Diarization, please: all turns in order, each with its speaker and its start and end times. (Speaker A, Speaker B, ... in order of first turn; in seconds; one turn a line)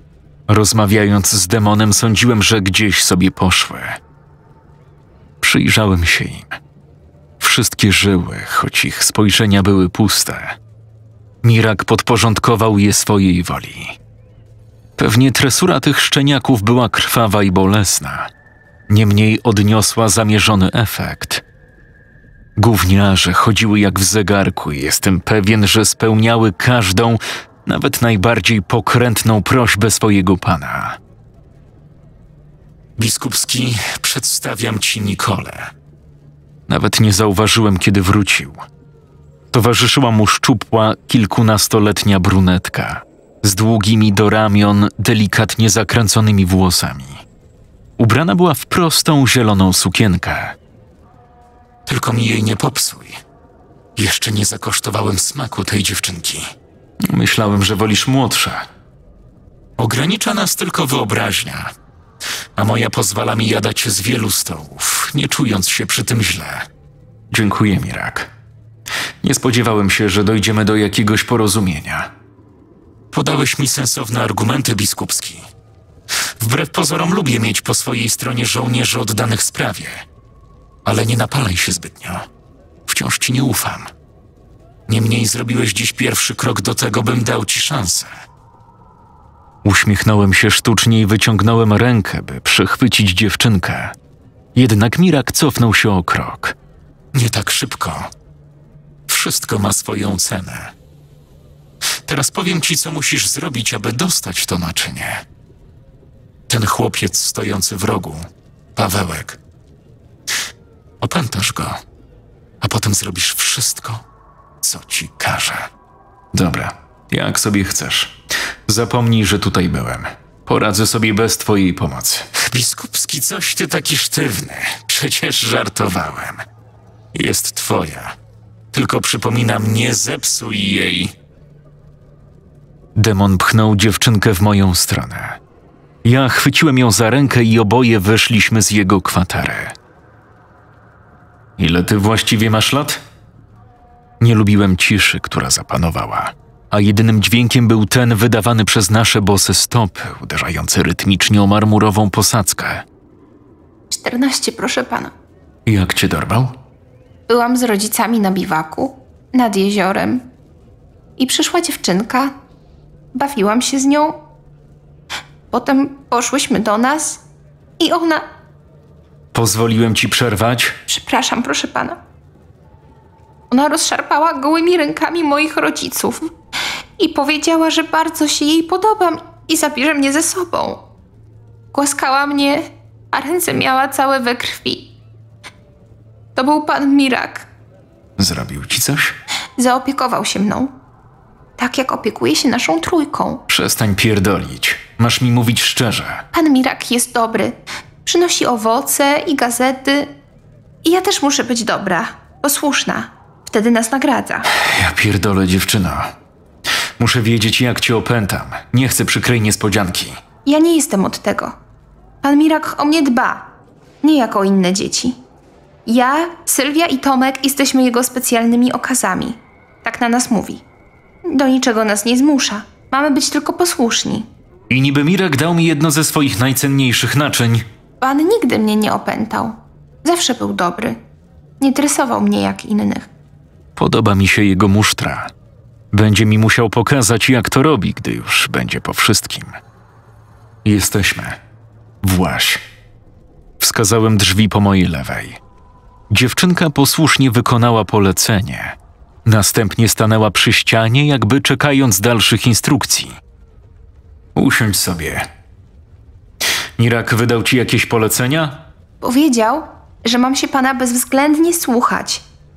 Speaker A: 0.5-4.0
Speaker A: 5.4-6.6
Speaker A: 7.4-10.6
Speaker A: 11.4-14.0
Speaker A: 15.0-18.3
Speaker A: 18.9-21.4
Speaker A: 22.6-31.0
Speaker B: 33.0-35.7
Speaker A: 36.7-38.6
Speaker A: 39.5-47.2
Speaker A: 48.0-50.6
Speaker B: 51.9-53.2
Speaker B: 54.0-56.5
Speaker A: 57.0-58.7
Speaker B: 59.8-61.7
Speaker B: 62.6-66.7
Speaker A: 67.3-68.3
Speaker A: 69.2-72.1
Speaker B: 73.1-75.5
Speaker B: 76.4-80.0
Speaker B: 80.8-82.3
Speaker B: 82.9-83.9
Speaker B: 84.9-88.1
Speaker A: 89.6-94.0
Speaker A: 94.5-96.6
Speaker B: 97.1-98.1
Speaker B: 99.1-100.7
Speaker B: 102.0-105.2
Speaker B: 106.5-109.4
Speaker B: 111.0-111.8
Speaker B: 112.6-114.0
Speaker B: 114.6-115.7
Speaker A: 116.3-122.3
Speaker B: 122.3-126.5
Speaker B: 127.1-128.2
Speaker B: 128.7-131.1
Speaker A: 132.9-135.4
Speaker A: 136.0-139.8
Speaker A: 141.6-143.0
Speaker A: 144.2-152.8
Speaker C: 153.9-155.1
Speaker A: 155.7-156.6
Speaker C: 157.3-160.3
Speaker C: 161.2-162.3
Speaker C: 163.1-164.2
Speaker C: 165.5-167.2
Speaker C: 167.8-168.3
Speaker A: 169.3-170.8
Speaker C: 170.9-172.0
Speaker C: 173.5-176.3
Speaker C: 177.0-180.8
Speaker C: 181.7-184.9
Speaker C: 186.3-187.5
Speaker A: 188.2-189.2
Speaker C: 189.6-190.7
Speaker C: 191.6-193.4
Speaker A: 193.5-196.3
Speaker C: 196.3-200.1
Speaker C: 200.8-204.5
Speaker A: 204.6-206.1
Speaker A: 207.0-210.2
Speaker C: 210.4-211.5
Speaker C: 212.2-213.5
Speaker C: 214.0-215.2
Speaker C: 215.9-220.6
Speaker C: 221.3-224.3
Speaker A: 224.7-227.7
Speaker C: 228.0-231.0
Speaker C: 231.6-233.1
Speaker A: 233.8-235.3
Speaker A: 235.9-239.6
Speaker A: 240.7-241.4
Speaker A: 242.0-242.6
Speaker A: 243.6-245.4
Speaker A: 246.1-253.2
Speaker A: 254.3-255.3
Speaker A: 256.8-258.7
Speaker C: 259.0-262.2